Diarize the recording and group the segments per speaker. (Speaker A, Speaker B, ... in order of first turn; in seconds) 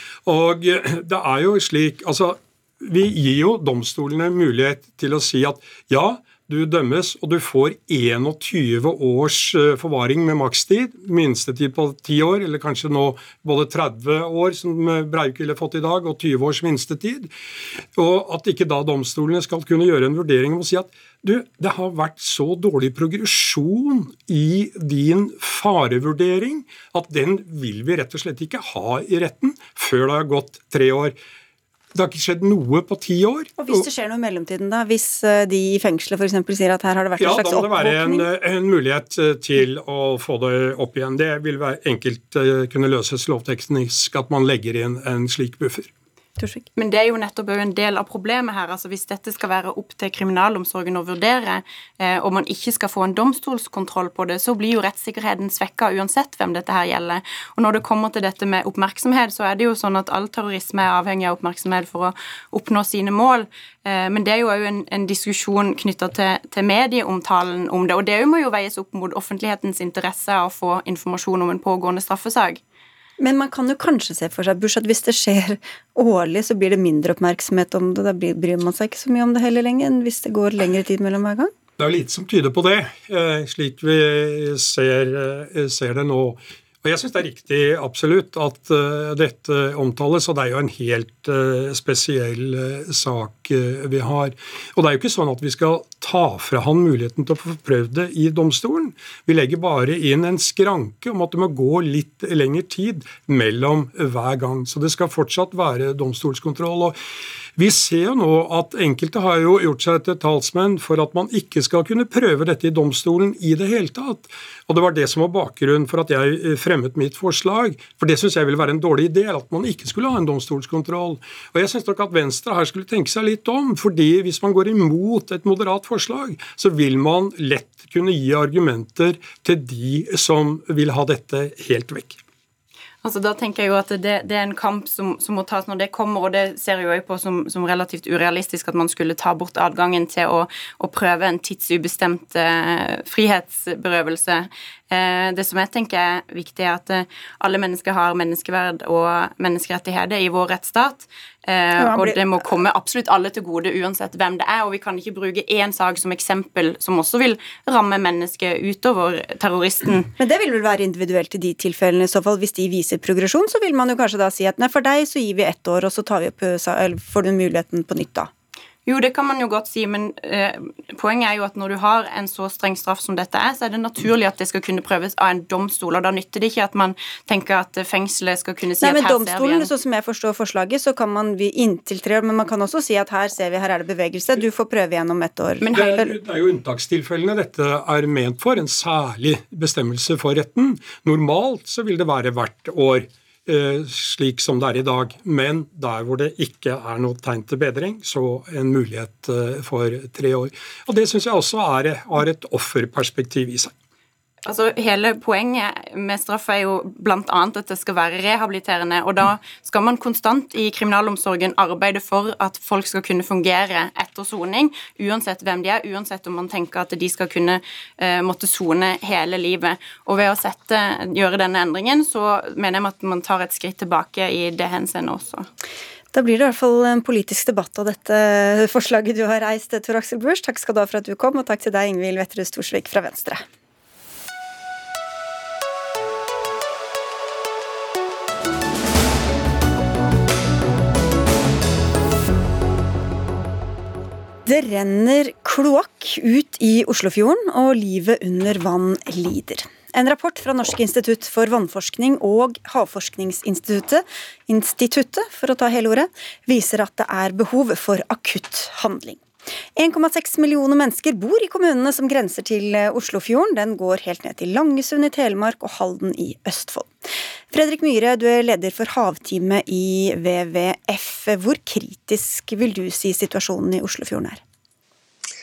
Speaker A: 0.3-17.3, 17.9-31.1, 31.9-33.9, 37.2-45.9, 81.8-107.0, 107.6-132.2, 185.7-203.7
Speaker B: 33.6-38.2, 46.4-46.7, 73.2-81.5, 151.8-152.3, 160.2-168.3, 178.8-186.1, 226.1-233.4, 244.4-259.2, 259.8-266.9, 267.5-274.4
Speaker C: 46.8-72.6, 133.0-160.1, 168.9-179.7, 185.6-186.1, 204.5-225.5